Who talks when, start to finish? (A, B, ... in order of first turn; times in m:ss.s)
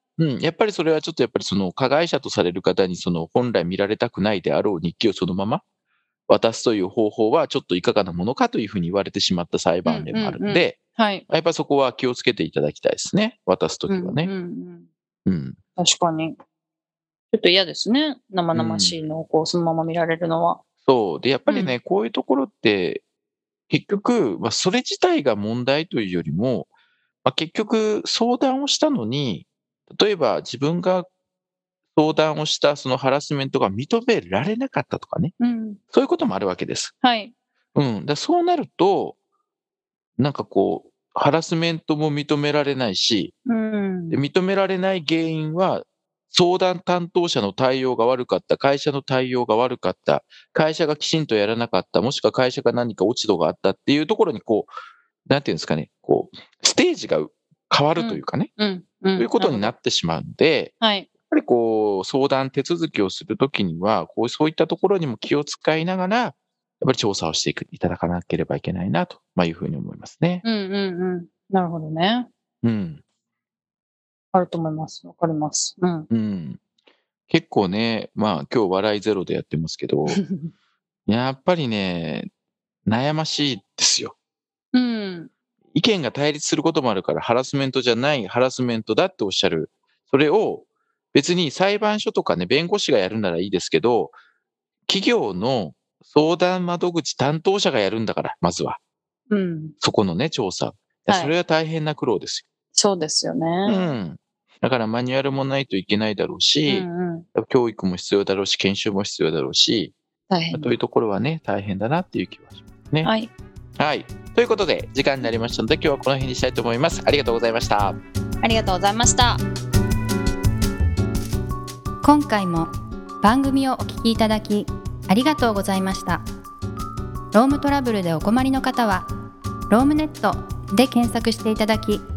0:00.2-0:05.6 A
0:06.3-0:14.3 A
0:09.9-0:11.2 B
0:13.9-0:14.9 B
0:15.3-0:15.6 A
0:15.8-0:16.4 B
0:17.3-0:20.6 B
0:18.5-0:19.0 A
0:20.8-0:23.0 A
0:21.5-0:21.8 B
0:23.7-0:26.7 A
0:27.2-0:31.1 A
0:32.0-0:35.3 A
0:35.4-0:35.8 B
0:35.9-0:36.9 A
0:37.0-0:37.3 B
0:37.8-0:39.2 A
0:40.2-0:43.3 A
0:43.5-0:44.2 B
0:44.1-0:54.7 A
0:55.3-0:58.5 A
0:58.0-0:59.7 B
0:59.2-1:10.4 A
1:00.8-1:01.1 B
1:10.4-1:12.3 B
1:12.6-1:13.0 A
1:14.3-1:16.1 B
1:16.1-1:16.6 A
1:17.3-1:20.2 A
1:20.1-1:20.5 B
1:21.1-1:22.3 A
1:22.9-1:24.2 A
1:24.7-1:25.3 B
1:25.7-1:34.2 A
1:34.9-1:38.8 A
1:39.3-1:39.8 B
1:39.8-1:42.5 A
1:42.8-1:44.0 B
1:43.7-1:49.9 A
1:46.7-1:47.3 B
1:50.3-1:50.7 B
1:50.5-1:53.1 A
1:53.0-1:53.3 B
1:53.8-1:58.0 A
1:58.4-1:59.4 B
2:02.0-2:02.7 C
2:03.2-2:06.2 C
2:07.3-2:09.1 C
2:09.7-2:12.0 C